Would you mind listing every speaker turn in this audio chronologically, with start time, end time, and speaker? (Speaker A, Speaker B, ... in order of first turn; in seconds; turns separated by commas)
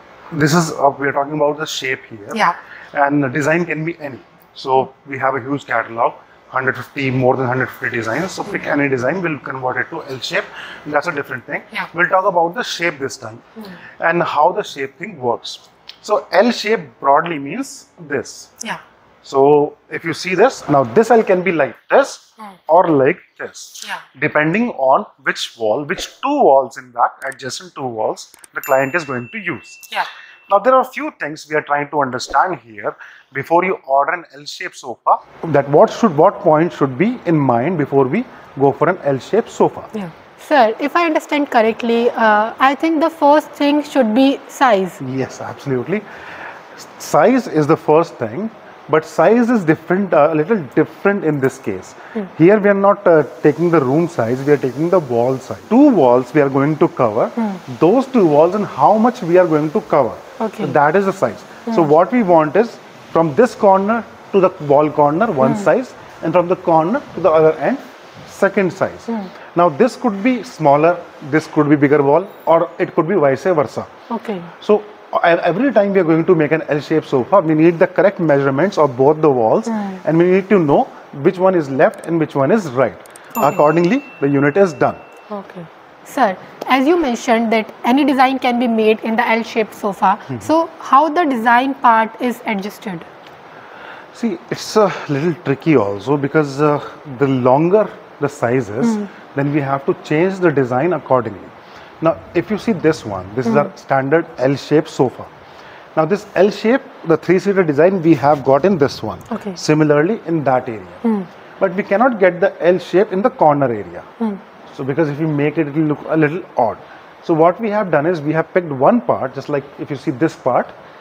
Speaker A: 0.3-2.4, Speaker B: 2.3-2.6, Speaker A: 2.9-13.4, Speaker A: 14.0-18.5, Speaker A: 19.2-39.9, Speaker B: 39.9-45.0, Speaker A: 45.0-46.0, Speaker A: 46.7-73.9, Speaker B: 60.4-60.8, Speaker B: 65.4-65.7, Speaker B: 74.1-74.5, Speaker A: 74.6-85.0, Speaker B: 79.7-80.0, Speaker B: 83.4-83.7, Speaker B: 85.3-93.1, Speaker A: 94.1-105.3, Speaker B: 98.8-99.1, Speaker B: 103.5-103.7, Speaker A: 106.0-111.0, Speaker B: 109.3-109.6, Speaker B: 111.0-111.3, Speaker A: 111.6-114.1, Speaker A: 114.7-120.7